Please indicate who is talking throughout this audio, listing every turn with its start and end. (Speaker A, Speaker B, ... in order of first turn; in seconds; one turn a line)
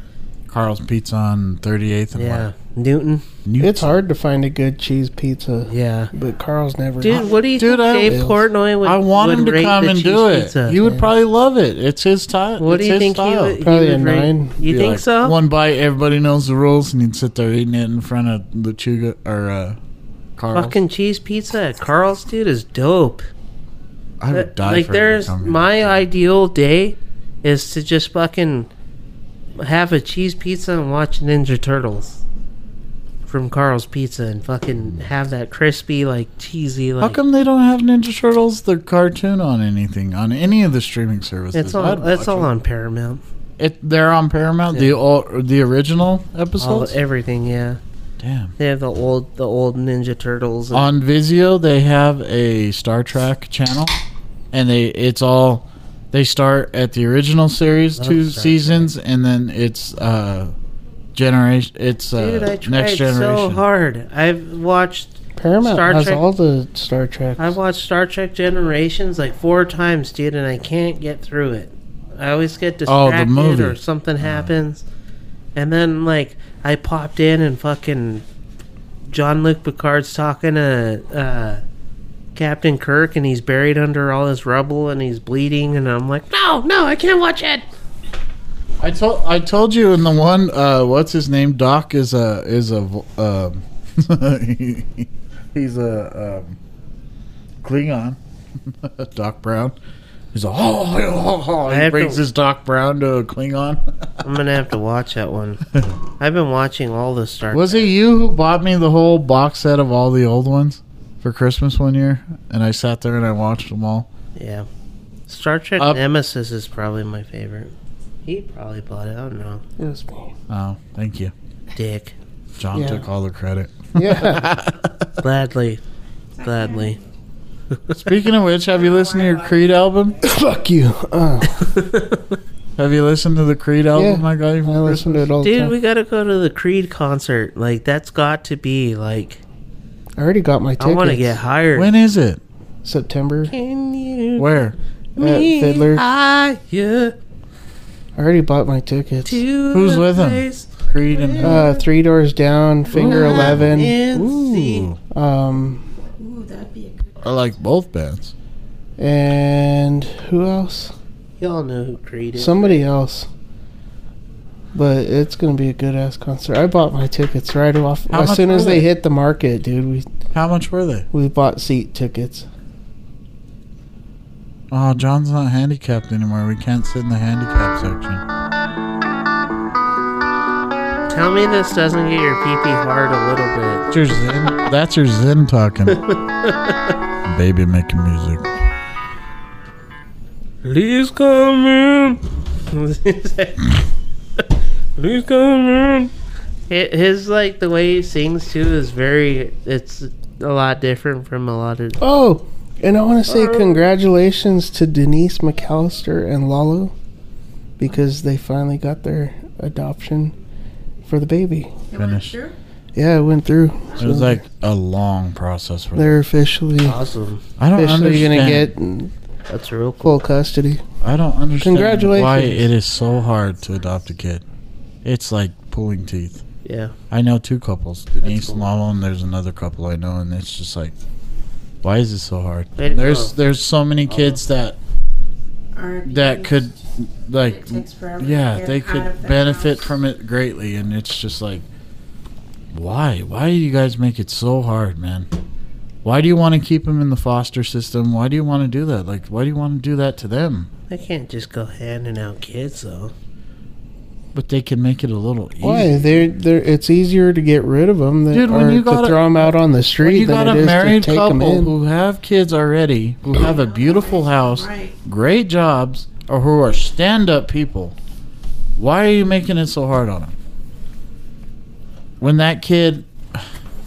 Speaker A: 0.5-2.5
Speaker B: 2.1-3.3
Speaker A: 3.5-4.0
Speaker C: 3.6-7.4
Speaker B: 5.7-6.1
Speaker B: 7.0-10.8
Speaker A: 7.2-8.2
Speaker C: 8.0-8.4
Speaker A: 8.8-13.6
Speaker C: 10.8-11.1
Speaker B: 12.6-15.4
Speaker C: 13.6-14.6
Speaker A: 14.6-19.8
Speaker A: 20.4-20.8
Speaker B: 20.5-23.3
Speaker A: 24.2-26.0
Speaker B: 24.3-28.7
Speaker B: 29.6-32.2
Speaker B: 33.3-37.2
Speaker A: 37.0-42.5
Speaker B: 41.5-43.2
Speaker A: 43.6-47.0
Speaker B: 46.6-47.8
Speaker A: 48.2-48.5
Speaker B: 48.6-50.9
Speaker A: 50.7-54.0
Speaker A: 54.5-60.5
Speaker B: 58.0-58.9
Speaker A: 61.1-63.6
Speaker B: 62.1-66.2
Speaker C: 65.4-67.6
Speaker B: 67.4-74.8
Speaker A: 72.9-74.5
Speaker B: 75.5-78.2
Speaker B: 79.1-81.6
Speaker B: 82.3-87.7
Speaker A: 88.8-96.6
Speaker A: 97.6-99.8
Speaker A: 100.3-103.8
Speaker B: 101.7-102.2
Speaker B: 104.2-105.6
Speaker B: 106.2-107.9
Speaker A: 107.5-114.1
Speaker B: 114.4-114.7
Speaker B: 115.3-117.7
Speaker B: 118.2-119.6
Speaker C: 119.8-120.3
Speaker A: 120.5-121.3
Speaker B: 121.8-122.2
Speaker A: 122.6-125.0
Speaker C: 122.7-123.0
Speaker C: 124.0-124.5
Speaker B: 125.2-125.8
Speaker D: 126.4-127.1
Speaker B: 126.4-127.0
Speaker A: 127.9-130.2
Speaker D: 128.7-129.8
Speaker C: 130.2-131.7
Speaker B: 131.6-132.4
Speaker A: 132.8-135.3
Speaker C: 133.9-135.8
Speaker B: 135.4-139.4
Speaker C: 140.2-141.4
Speaker B: 140.8-141.9
Speaker A: 141.8-142.4
Speaker C: 142.8-143.5
Speaker B: 143.5-144.5
Speaker A: 144.4-144.8
Speaker B: 145.2-147.2
Speaker C: 145.2-146.0
Speaker C: 148.2-149.4
Speaker B: 149.2-151.6
Speaker A: 149.7-151.7
Speaker C: 151.4-154.0
Speaker B: 152.9-154.9
Speaker A: 153.0-155.0
Speaker C: 155.1-155.8
Speaker D: 156.2-157.5
Speaker A: 157.2-158.3
Speaker C: 159.0-160.9
Speaker B: 161.4-162.8
Speaker C: 162.4-163.3
Speaker C: 164.7-170.1
Speaker A: 168.1-168.9
Speaker A: 170.3-171.1
Speaker C: 171.1-172.5
Speaker A: 174.7-178.2
Speaker B: 181.1-183.9
Speaker A: 183.9-186.0
Speaker B: 185.9-186.9
Speaker A: 187.2-188.5
Speaker B: 190.6-193.7
Speaker B: 195.0-196.1
Speaker B: 196.7-202.0
Speaker C: 202.0-206.9
Speaker B: 203.3-203.8
Speaker C: 207.8-210.3
Speaker C: 211.1-211.8
Speaker D: 211.9-212.6
Speaker A: 211.9-212.4
Speaker C: 212.9-214.4
Speaker A: 214.0-216.2
Speaker C: 215.9-217.0
Speaker B: 216.8-217.4
Speaker A: 217.6-218.7
Speaker C: 217.7-219.1
Speaker B: 219.5-220.2
Speaker C: 220.0-220.8
Speaker A: 221.0-224.4
Speaker C: 221.6-222.7
Speaker D: 223.0-224.0
Speaker A: 225.0-226.4
Speaker B: 226.6-226.9
Speaker A: 227.1-230.9
Speaker B: 228.2-228.7
Speaker A: 231.8-234.8
Speaker B: 232.8-233.3
Speaker B: 234.1-234.4
Speaker D: 235.7-236.8
Speaker A: 236.1-241.7
Speaker D: 237.4-240.0
Speaker A: 242.7-245.3
Speaker A: 246.0-250.7
Speaker B: 250.9-253.1
Speaker A: 254.3-256.3
Speaker C: 255.6-261.7
Speaker A: 258.3-268.0
Speaker D: 263.3-265.0
Speaker A: 268.8-270.4
Speaker A: 272.2-273.5